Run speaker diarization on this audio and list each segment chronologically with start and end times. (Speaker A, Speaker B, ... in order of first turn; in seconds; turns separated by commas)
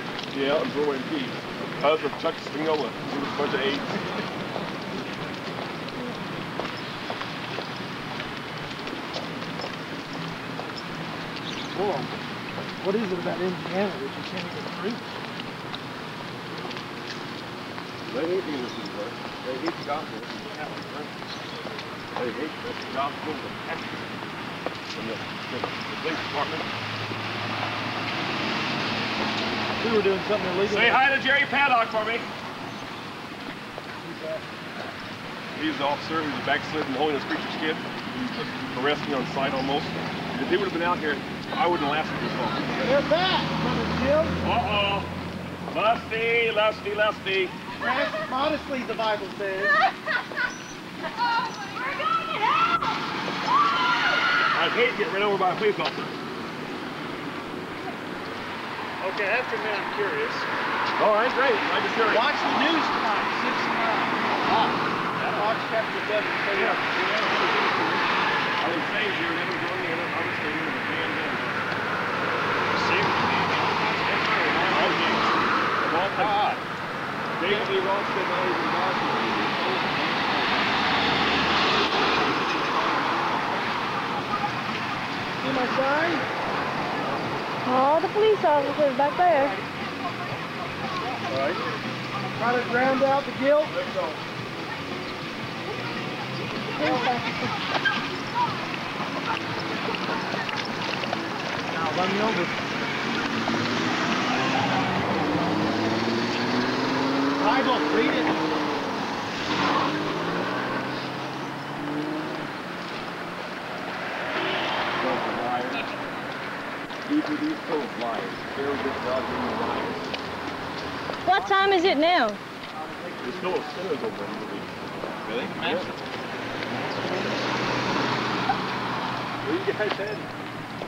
Speaker A: 0.3-4.0, Speaker B: 11.7-12.1, Speaker B: 12.8-15.1, Speaker A: 18.1-21.1, Speaker A: 22.1-24.0, Speaker A: 24.9-26.7, Speaker B: 29.8-31.0, Speaker A: 30.6-32.3, Speaker B: 34.0-34.5, Speaker A: 35.5-42.8, Speaker B: 42.7-44.4, Speaker A: 44.4-45.1, Speaker A: 45.7-47.5, Speaker B: 47.8-49.7, Speaker A: 54.5-56.1, Speaker C: 59.0-60.5, Speaker A: 61.0-62.3, Speaker B: 62.1-66.9, Speaker A: 65.2-65.5, Speaker A: 66.5-68.1, Speaker A: 68.6-71.7, Speaker C: 72.7-73.7, Speaker A: 73.8-76.5, Speaker B: 76.2-76.5, Speaker A: 77.4-80.7, Speaker B: 85.4-86.2, Speaker D: 87.6-89.6, Speaker B: 91.3-91.7, Speaker B: 92.3-93.8, Speaker A: 93.7-94.2, Speaker D: 96.8-97.5, Speaker B: 96.8-97.1, Speaker B: 101.7-102.6, Speaker B: 107.4-108.3, Speaker A: 115.0-115.9, Speaker A: 117.1-120.1, Speaker D: 121.2-122.4, Speaker B: 122.8-123.7, Speaker A: 123.2-124.7, Speaker A: 125.2-125.9, Speaker A: 129.5-129.9